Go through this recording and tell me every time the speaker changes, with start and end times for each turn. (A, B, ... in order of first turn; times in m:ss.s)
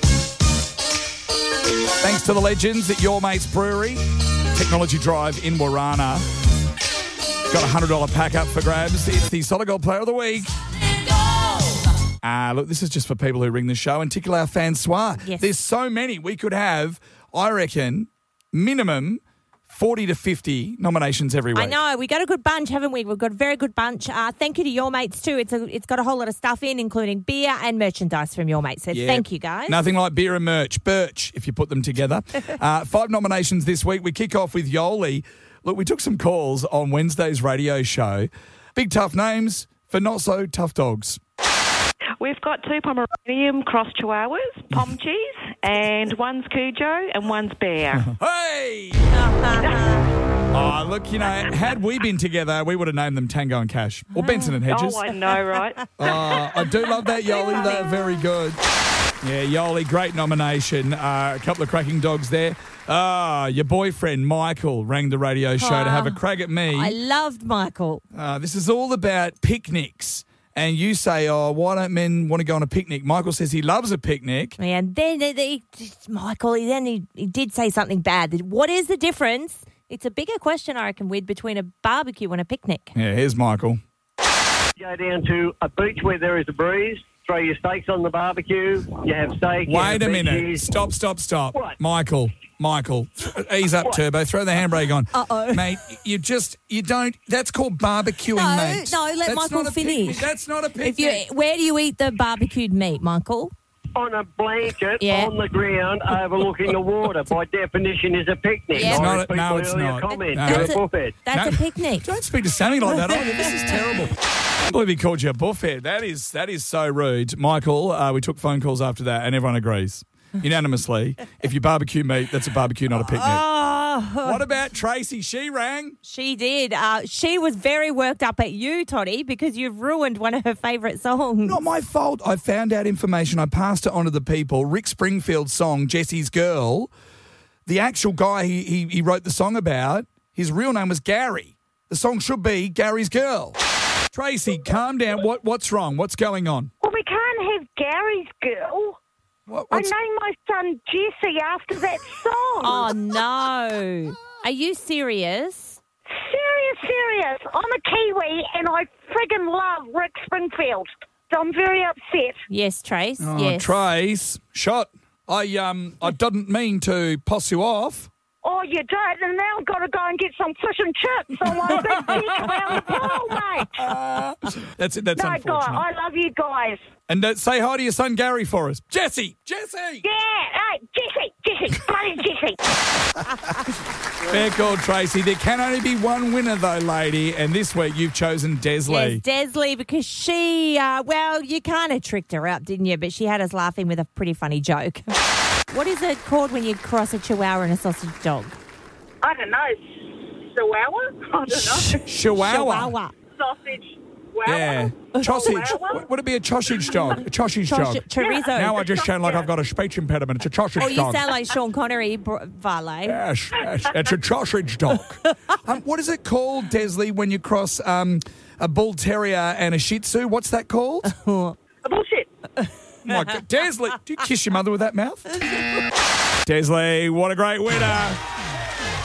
0:02.0-0:06.2 A
0:07.5-0:10.5 A
0:12.2-0:21.8 A
0:21.5-0:29.8 B
0:28.9-0:41.2 A
0:42.2-0:48.1 C
0:48.0-0:49.1 A
0:49.1-0:50.0 B
0:50.5-0:55.1 A
0:54.6-0:55.9 C
0:56.0-0:58.6 A
0:57.3-0:58.0 B
0:59.2-1:06.9 A
1:05.6-1:08.0 B
1:08.1-1:14.6 A
1:14.6-1:22.9 B
1:22.9-1:23.8 A
1:24.8-1:30.7 D
1:29.6-1:41.2 A
1:35.1-1:35.7 B
1:38.3-1:43.5 B
1:43.9-1:51.2 D
1:45.0-1:45.4 B
1:48.7-1:49.2 B
1:48.8-1:50.8 A
1:50.1-1:52.1 B
1:51.3-2:03.4 A
2:03.0-2:04.4 B
2:04.2-2:06.0 A
2:06.0-2:11.6 B
2:11.4-2:16.9 A
2:17.6-2:23.6 A
2:24.1-2:26.7 A
2:26.8-2:29.0 E
2:29.5-2:29.9 A
2:29.7-2:32.9 E
2:32.6-2:35.8 B
2:36.1-2:42.4 E
2:42.5-2:43.8 B
2:43.2-2:48.1 A
2:48.4-2:53.9 E
2:51.7-2:53.1 A
2:53.8-2:55.8 A
2:55.2-2:56.8 E
2:57.1-3:00.0 A
3:00.0-3:02.6 E
3:04.2-3:09.2 A
3:08.9-3:15.1 B
3:15.7-3:18.6 B
3:19.2-3:19.8 F
3:20.5-3:22.0 F
3:21.7-3:23.1 B
3:21.9-3:22.9 A
3:23.4-3:26.0 F
3:24.4-3:31.3 A
3:25.1-3:25.6 B
3:27.6-3:28.9 B
3:28.2-3:29.4 F
3:30.8-3:33.2 B
3:33.0-3:41.1 A
3:41.1-3:41.6 B
3:41.8-3:42.3 F
3:43.0-3:45.4 A
3:46.4-3:48.2 A